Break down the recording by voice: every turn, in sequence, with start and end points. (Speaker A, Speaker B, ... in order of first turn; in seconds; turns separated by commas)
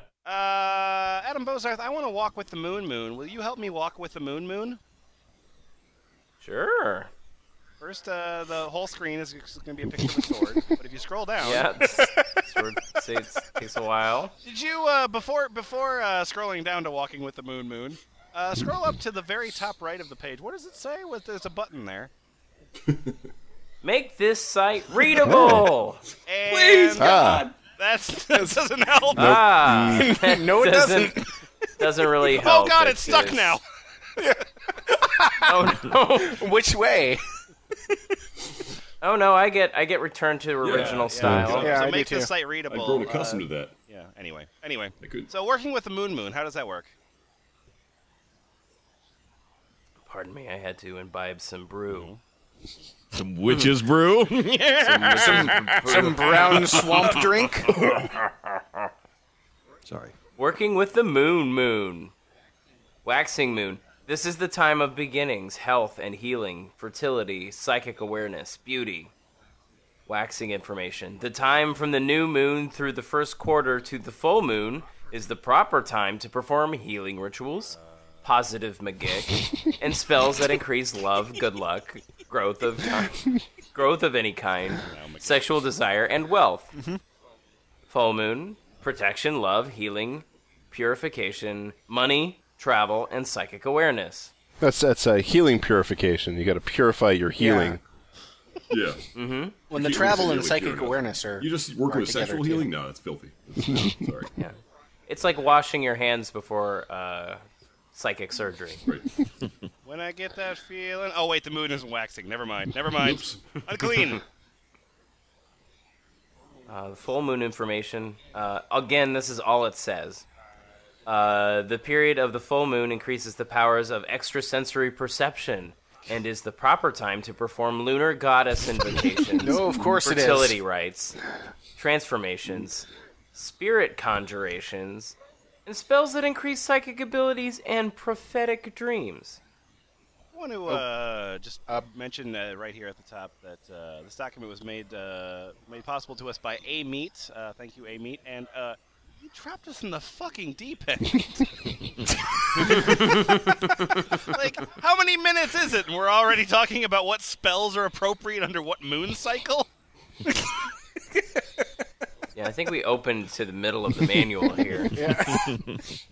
Speaker A: 0.2-4.8, Speaker B: 6.4-7.1, Speaker A: 7.8-11.7, Speaker B: 11.4-14.3, Speaker A: 14.4-22.1, Speaker B: 23.8-26.0, Speaker C: 25.2-25.6, Speaker A: 26.3-29.4, Speaker D: 26.5-27.5, Speaker C: 27.0-27.4, Speaker C: 29.1-30.2, Speaker B: 29.1-31.1, Speaker E: 29.9-31.3, Speaker B: 31.8-33.6, Speaker A: 32.3-33.6, Speaker E: 34.2-37.2, Speaker B: 35.4-36.4, Speaker B: 39.0-41.7, Speaker D: 40.6-41.8, Speaker A: 40.7-46.9, Speaker C: 41.2-41.6, Speaker E: 41.6-42.3, Speaker D: 42.7-43.8, Speaker D: 45.0-45.3, Speaker B: 50.1-52.1, Speaker A: 51.9-52.2, Speaker F: 53.1-58.2, Speaker B: 54.9-57.2, Speaker E: 55.1-57.7, Speaker F: 59.9-60.1, Speaker B: 60.4-62.1, Speaker B: 63.0-69.1, Speaker B: 70.1-86.7, Speaker A: 77.8-78.2, Speaker A: 84.8-85.7, Speaker B: 87.9-94.3, Speaker C: 94.6-97.8, Speaker E: 97.4-97.8, Speaker D: 98.7-99.0, Speaker B: 99.1-99.5, Speaker E: 99.7-102.7, Speaker D: 99.7-104.3, Speaker B: 105.1-107.4, Speaker B: 107.9-108.8, Speaker A: 109.8-114.2, Speaker D: 113.0-113.4, Speaker B: 116.7-120.2, Speaker B: 121.0-131.2, Speaker E: 129.3-130.6, Speaker B: 131.8-139.4, Speaker A: 140.3-151.6, Speaker A: 152.6-159.7, Speaker B: 152.7-153.8, Speaker B: 162.3-165.2, Speaker E: 164.9-165.6, Speaker F: 165.3-165.6